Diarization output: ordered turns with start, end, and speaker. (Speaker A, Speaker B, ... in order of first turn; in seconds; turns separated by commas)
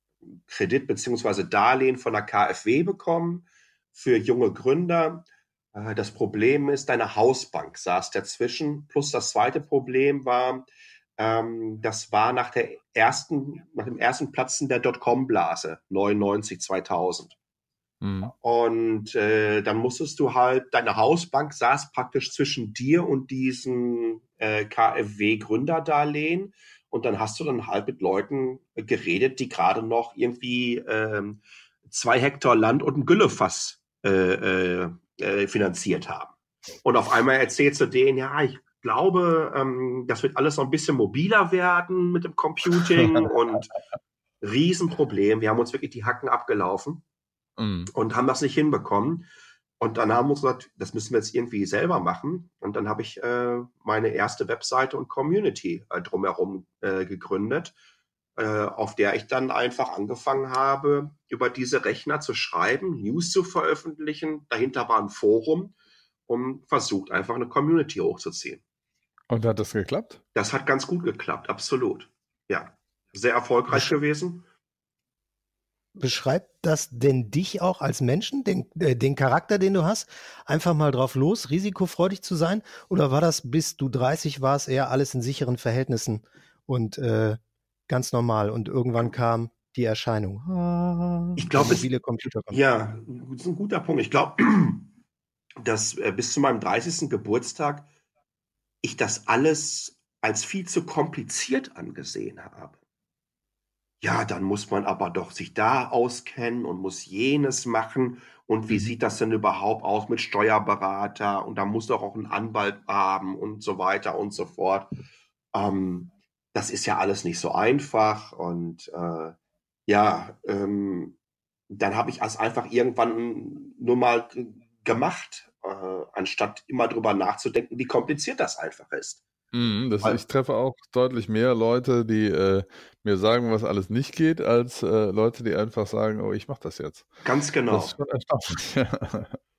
Speaker A: 0.3-10.7, Speaker A: 11.2-17.4, Speaker B: 18.0-18.3, Speaker A: 18.4-43.7, Speaker A: 44.4-47.0, Speaker B: 47.6-47.9, Speaker A: 47.9-49.3, Speaker A: 49.8-57.8, Speaker A: 58.4-65.7, Speaker A: 66.3-68.6, Speaker B: 69.3-70.2, Speaker A: 70.3-74.4, Speaker C: 76.0-92.6, Speaker A: 91.4-91.8, Speaker A: 92.5-94.9, Speaker A: 95.6-97.9, Speaker A: 98.8-102.8, Speaker A: 104.0-114.9, Speaker A: 115.5-119.3, Speaker A: 119.9-121.2, Speaker A: 121.7-129.2, Speaker B: 129.5-137.1, Speaker A: 137.2-137.9, Speaker B: 137.7-139.4